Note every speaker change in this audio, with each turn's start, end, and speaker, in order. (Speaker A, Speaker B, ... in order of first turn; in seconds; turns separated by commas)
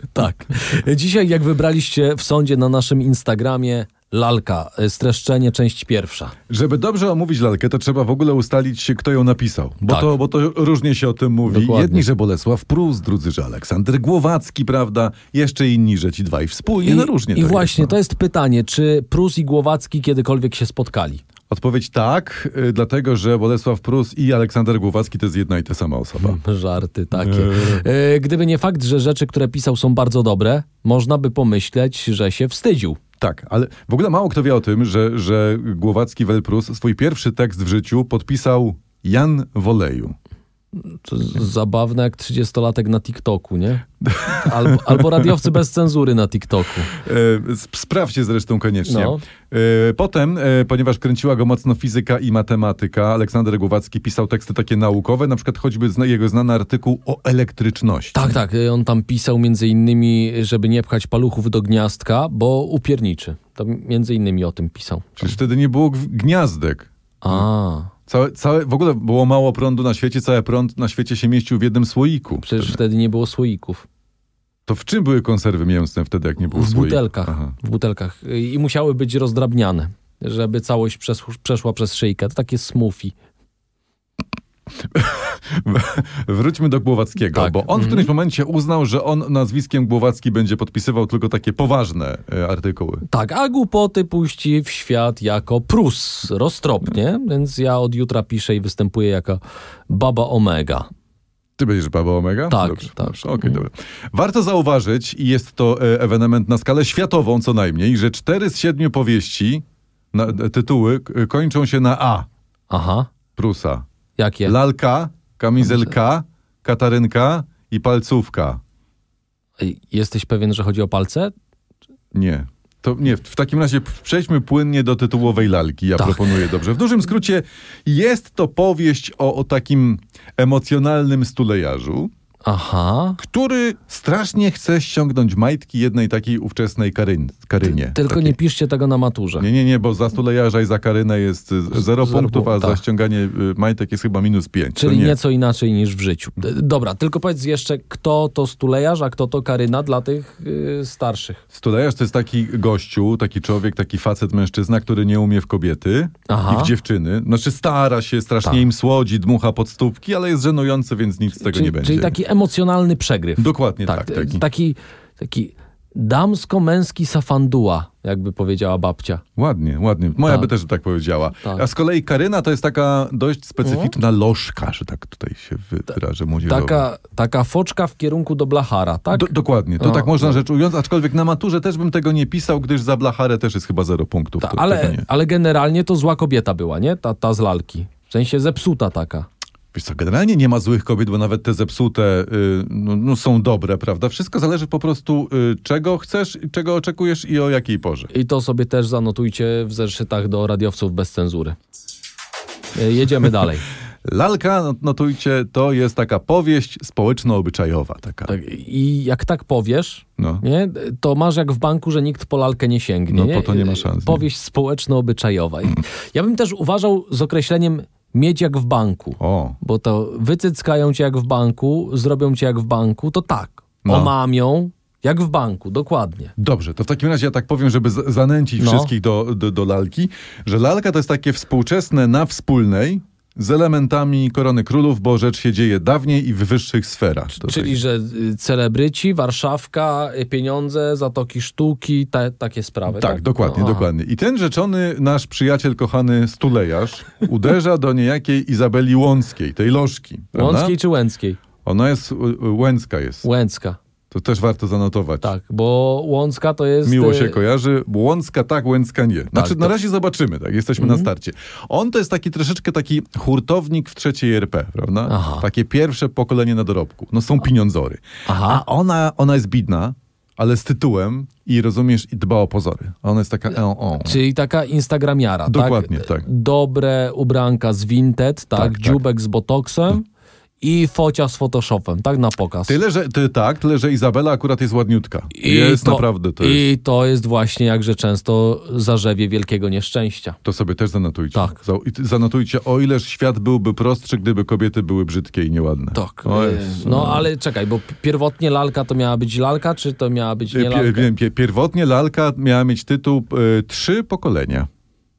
Speaker A: 0.1-6.3, Speaker B: 6.5-17.9, Speaker A: 9.8-10.1, Speaker A: 11.4-12.1, Speaker A: 16.8-21.2, Speaker B: 21.5-26.4, Speaker A: 26.2-33.0, Speaker B: 27.1-27.8, Speaker B: 33.2-40.1, Speaker A: 40.8-43.9, Speaker B: 44.0-45.0, Speaker A: 44.4-46.9, Speaker B: 46.9-58.4, Speaker A: 48.8-49.2, Speaker A: 58.1-65.3, Speaker B: 65.2-67.5, Speaker A: 67.2-67.9, Speaker B: 68.1-72.8, Speaker A: 72.4-73.8, Speaker B: 74.7-77.5, Speaker A: 76.5-83.1, Speaker B: 84.8-93.0, Speaker A: 87.3-88.1, Speaker A: 93.1-100.9, Speaker B: 101.6-112.3, Speaker A: 102.5-103.6, Speaker A: 112.7-113.1, Speaker B: 113.3-113.8, Speaker A: 114.2-114.5, Speaker B: 114.4-118.6, Speaker A: 115.6-115.9, Speaker A: 119.6-121.3, Speaker B: 122.1-132.1, Speaker A: 126.0-126.3, Speaker A: 132.4-133.2, Speaker B: 133.2-138.3, Speaker A: 137.6-139.5, Speaker B: 139.4-145.2, Speaker A: 141.7-142.8, Speaker A: 144.8-151.4, Speaker B: 151.5-162.2, Speaker A: 156.3-156.7, Speaker A: 161.4-169.2, Speaker B: 163.4-164.4, Speaker B: 169.3-176.9, Speaker A: 173.6-173.9, Speaker A: 176.5-180.4, Speaker B: 179.1-185.1, Speaker A: 184.4-189.3, Speaker B: 189.7-198.1, Speaker A: 198.1-201.6, Speaker A: 202.7-203.7, Speaker B: 204.0-208.3, Speaker A: 208.3-226.3, Speaker B: 210.2-210.4, Speaker B: 213.1-214.2, Speaker B: 219.2-219.6, Speaker B: 223.8-224.1, Speaker B: 226.4-237.8, Speaker A: 228.6-228.9, Speaker A: 237.3-243.9, Speaker B: 242.9-250.7, Speaker A: 250.3-251.4, Speaker B: 251.6-253.3, Speaker A: 253.2-253.8, Speaker B: 254.1-255.3, Speaker A: 255.2-257.4, Speaker B: 256.8-274.2, Speaker A: 259.3-259.7, Speaker A: 260.8-261.1, Speaker A: 265.1-265.4, Speaker A: 268.2-268.6, Speaker A: 274.0-280.0, Speaker B: 275.5-276.2, Speaker B: 278.6-279.0, Speaker A: 280.6-282.8, Speaker B: 282.6-286.6, Speaker A: 285.3-290.4, Speaker B: 290.4-297.3, Speaker A: 295.9-301.1, Speaker B: 300.5-304.7